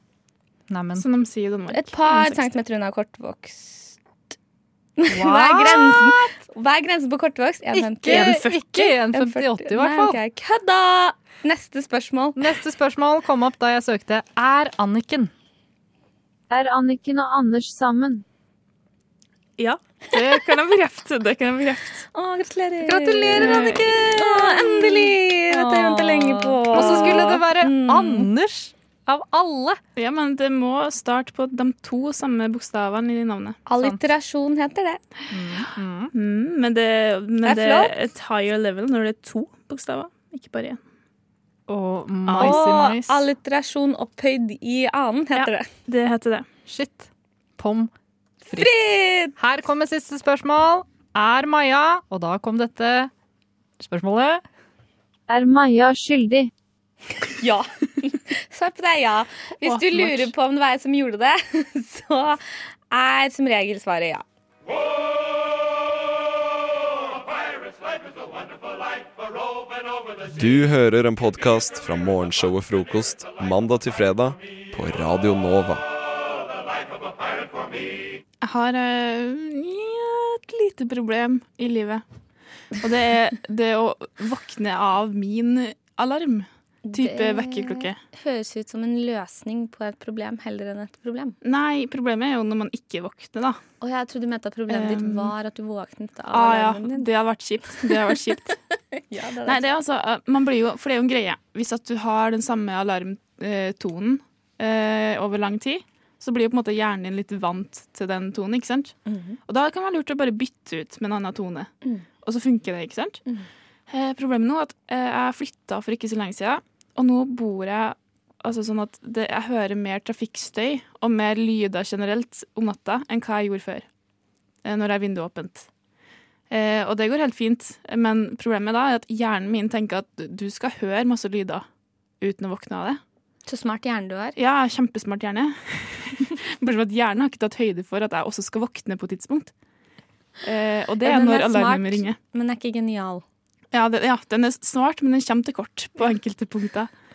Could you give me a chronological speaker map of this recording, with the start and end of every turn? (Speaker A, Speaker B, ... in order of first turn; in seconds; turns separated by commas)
Speaker A: 0.7-1.1, Speaker B: 0.9-2.5, Speaker C: 1.7-4.0, Speaker C: 5.0-12.4, Speaker A: 5.1-6.2, Speaker A: 7.7-10.2, Speaker B: 8.1-8.7, Speaker A: 12.3-15.3, Speaker D: 16.5-18.2, Speaker B: 20.1-22.0, Speaker C: 22.1-28.3, Speaker A: 22.8-24.5, Speaker B: 23.4-23.8, Speaker A: 26.7-29.8, Speaker B: 29.9-33.6, Speaker C: 33.6-35.0, Speaker A: 35.3-36.1, Speaker B: 36.1-40.8, Speaker C: 37.4-37.9, Speaker A: 41.7-43.2, Speaker B: 42.3-42.7, Speaker C: 42.4-45.7, Speaker B: 45.3-46.5, Speaker A: 46.7-47.9, Speaker C: 48.5-49.3, Speaker A: 49.4-53.1, Speaker A: 53.8-54.4, Speaker D: 55.3-56.5, Speaker C: 57.3-62.4, Speaker B: 59.6-60.3, Speaker C: 62.9-64.2, Speaker E: 70.3-75.8, Speaker B: 78.4-82.0, Speaker B: 82.8-88.0, Speaker C: 86.8-91.3, Speaker B: 91.4-93.6, Speaker C: 93.8-97.1, Speaker B: 94.7-95.3, Speaker B: 96.3-98.6, Speaker C: 97.8-98.2, Speaker C: 99.1-99.7, Speaker B: 99.4-113.2, Speaker C: 109.0-109.4, Speaker B: 113.9-123.9, Speaker B: 124.6-125.7, Speaker B: 126.5-131.7, Speaker B: 132.2-133.0, Speaker C: 133.4-134.4, Speaker B: 134.3-139.5, Speaker B: 140.4-142.2, Speaker C: 141.0-143.2, Speaker B: 143.7-146.9